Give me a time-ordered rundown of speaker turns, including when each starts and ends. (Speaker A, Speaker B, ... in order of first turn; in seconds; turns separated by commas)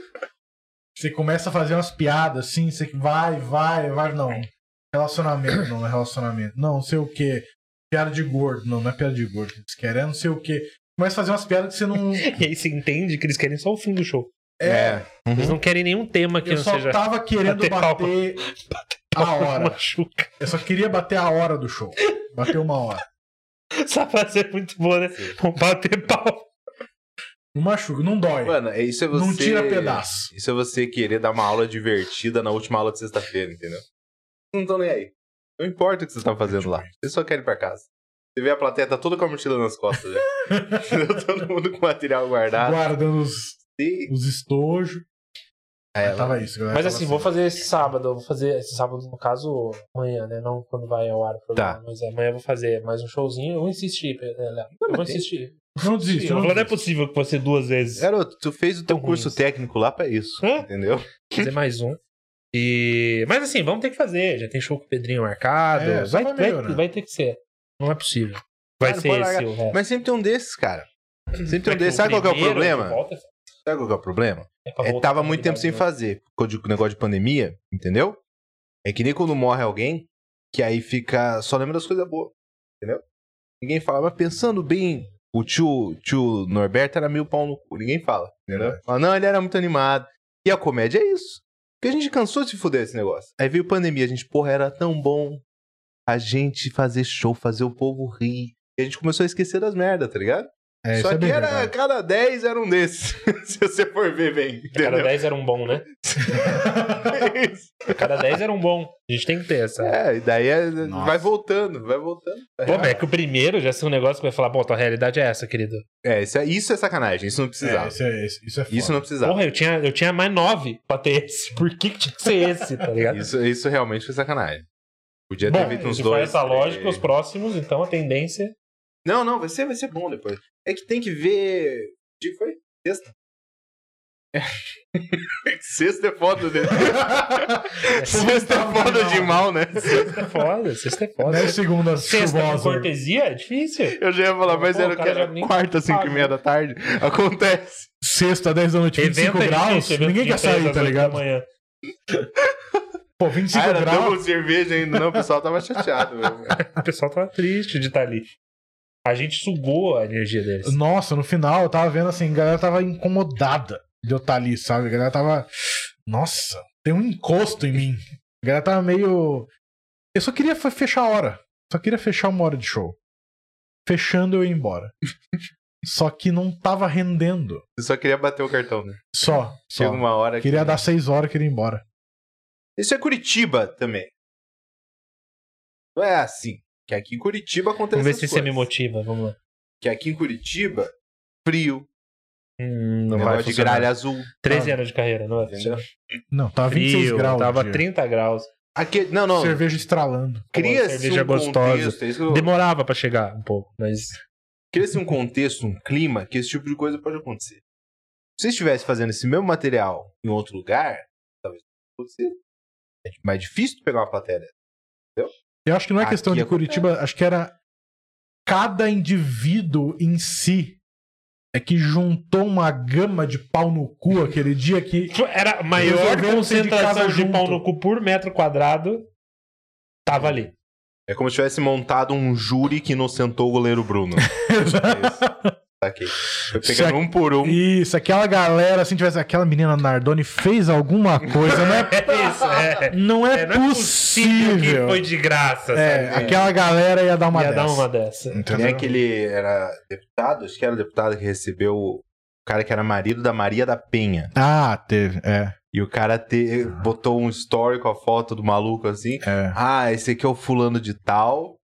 Speaker A: 0.9-12.4, Speaker B: 12.2-14.3, Speaker A: 14.6-15.1, Speaker C: 14.6-15.6, Speaker B: 15.3-20.3, Speaker A: 16.4-18.4, Speaker A: 19.1-19.8, Speaker A: 20.4-23.0, Speaker B: 23.8-26.5, Speaker A: 27.5-28.6, Speaker C: 28.4-33.8, Speaker A: 29.1-30.3, Speaker C: 34.5-42.8, Speaker A: 36.4-36.9, Speaker A: 40.5-40.8, Speaker A: 42.6-45.0, Speaker C: 43.8-44.1, Speaker C: 45.9-46.4, Speaker A: 46.0-47.3, Speaker B: 46.7-58.1, Speaker C: 54.8-55.2, Speaker A: 55.8-56.7, Speaker C: 58.0-61.5, Speaker B: 58.9-59.4, Speaker B: 60.4-60.7, Speaker B: 61.3-62.0, Speaker B: 62.5-69.8, Speaker A: 65.8-66.8, Speaker C: 68.8-70.9, Speaker C: 71.4-73.0, Speaker B: 71.5-73.3, Speaker C: 73.7-78.2, Speaker B: 74.7-75.8, Speaker C: 78.8-83.0, Speaker C: 83.6-95.4, Speaker A: 88.5-88.8, Speaker C: 96.1-105.2, Speaker A: 100.8-101.7, Speaker B: 104.8-105.8, Speaker C: 106.0-108.1, Speaker A: 106.3-107.2, Speaker B: 107.9-110.0, Speaker C: 109.8-113.0, Speaker A: 110.8-111.2, Speaker B: 112.7-115.8, Speaker C: 116.0-118.0, Speaker A: 117.6-119.0, Speaker C: 118.7-119.4, Speaker B: 119.2-123.2, Speaker C: 123.1-124.6, Speaker C: 125.3-127.0, Speaker B: 125.5-128.5, Speaker C: 129.0-133.1, Speaker C: 134.3-140.2, Speaker A: 136.7-139.5, Speaker B: 137.9-138.2, Speaker B: 139.8-146.3, Speaker A: 141.2-142.9, Speaker C: 144.0-147.9, Speaker A: 148.0-151.2, Speaker B: 149.0-151.4, Speaker A: 153.2-154.2, Speaker C: 153.5-156.6, Speaker B: 156.5-158.3, Speaker B: 159.0-160.8, Speaker A: 160.6-165.5, Speaker A: 166.0-169.5, Speaker A: 170.1-173.0, Speaker A: 173.8-174.9, Speaker A: 175.8-177.6, Speaker C: 177.8-179.1, Speaker A: 179.1-181.8, Speaker C: 179.7-180.8, Speaker C: 182.8-184.1, Speaker C: 185.9-188.7, Speaker B: 187.9-189.3, Speaker C: 189.8-190.9, Speaker C: 191.4-191.9, Speaker B: 192.6-195.8, Speaker C: 193.1-194.3, Speaker A: 194.5-194.8, Speaker C: 195.5-195.8, Speaker A: 196.3-197.8, Speaker B: 196.7-198.5, Speaker C: 198.7-199.6, Speaker A: 199.3-200.5, Speaker C: 200.5-202.5, Speaker B: 200.5-204.2, Speaker C: 204.7-207.6, Speaker C: 208.4-212.4, Speaker C: 213.0-214.5, Speaker A: 215.7-217.5, Speaker C: 216.0-216.8, Speaker A: 218.4-220.8, Speaker A: 221.5-225.1, Speaker B: 225.1-229.1, Speaker A: 225.8-227.6, Speaker B: 230.1-230.5, Speaker C: 231.1-234.3, Speaker A: 234.2-235.5, Speaker C: 234.8-235.2, Speaker C: 235.8-237.6, Speaker A: 236.5-242.0, Speaker B: 241.8-246.4, Speaker A: 242.9-245.0, Speaker A: 245.7-248.9, Speaker C: 246.1-246.4, Speaker B: 247.3-248.5, Speaker C: 248.5-254.3, Speaker A: 254.3-255.6, Speaker C: 255.7-261.6, Speaker A: 259.2-259.6